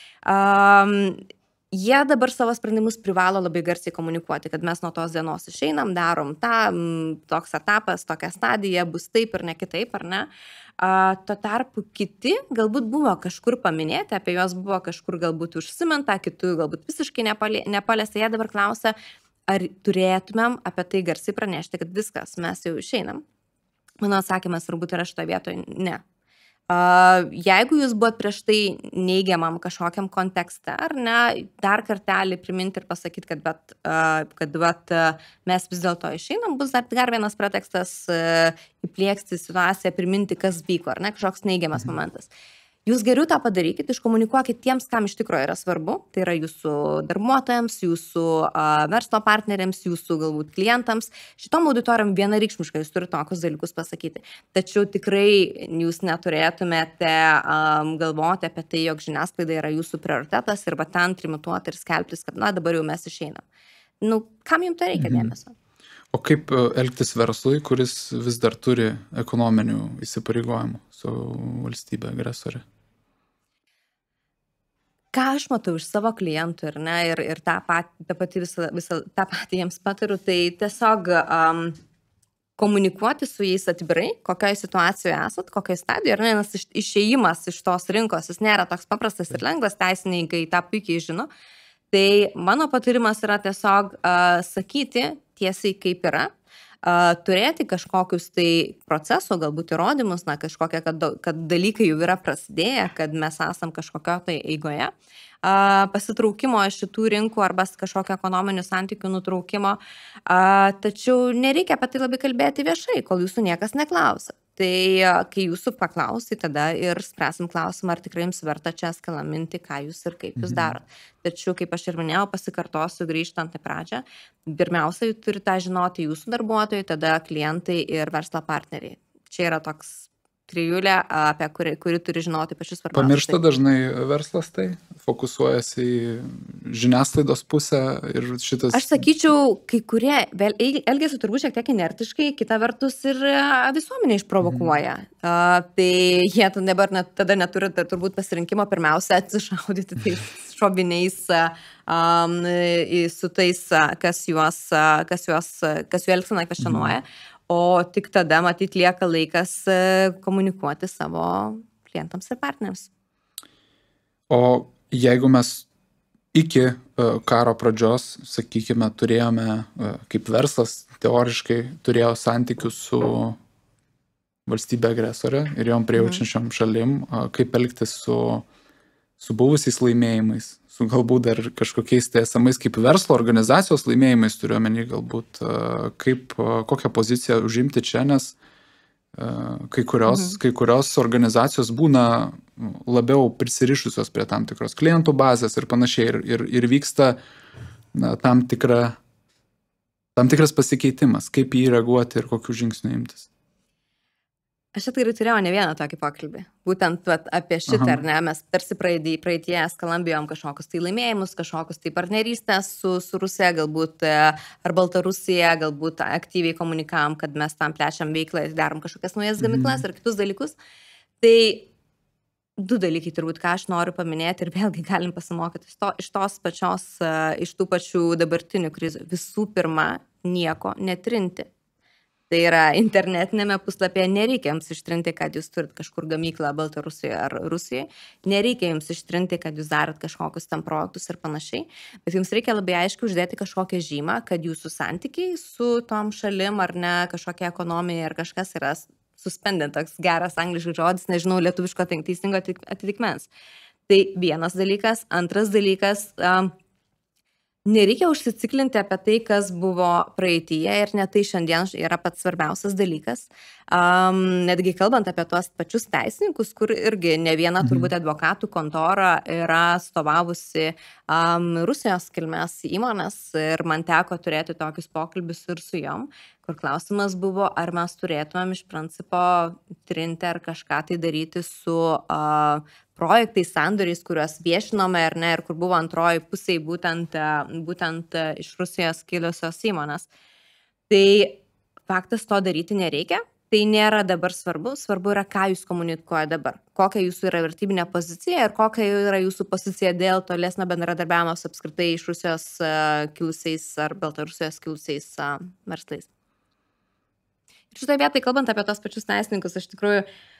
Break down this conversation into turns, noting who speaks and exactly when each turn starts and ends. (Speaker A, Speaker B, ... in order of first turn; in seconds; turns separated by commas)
Speaker A: 0.2-10.3, Speaker A: 10.8-18.9, Speaker A: 19.5-23.2, Speaker A: 24.0-26.0, Speaker A: 26.7-42.3, Speaker A: 42.9-63.4, Speaker A: 64.0-65.5, Speaker B: 65.0-65.3, Speaker B: 66.1-72.6, Speaker A: 75.1-81.8, Speaker A: 82.6-91.3, Speaker A: 91.9-96.3, Speaker A: 96.8-104.9, Speaker A: 105.4-133.4, Speaker B: 120.4-120.8, Speaker B: 132.9-139.0, Speaker A: 138.7-162.9, Speaker B: 144.4-144.7, Speaker B: 156.6-156.9, Speaker B: 164.3-165.7, Speaker B: 166.3-173.4, Speaker B: 174.5-178.5, Speaker A: 176.0-176.2, Speaker B: 179.2-188.4, Speaker B: 189.2-197.2, Speaker A: 190.1-190.4, Speaker B: 197.9-199.0, Speaker B: 200.2-203.3, Speaker A: 204.7-220.6, Speaker B: 207.7-208.0, Speaker B: 219.4-219.8, Speaker A: 221.2-221.7, Speaker A: 222.6-231.5, Speaker A: 232.3-253.3, Speaker A: 253.9-256.5, Speaker A: 257.7-290.1, Speaker B: 267.6-267.9, Speaker A: 290.9-306.1, Speaker A: 307.7-310.1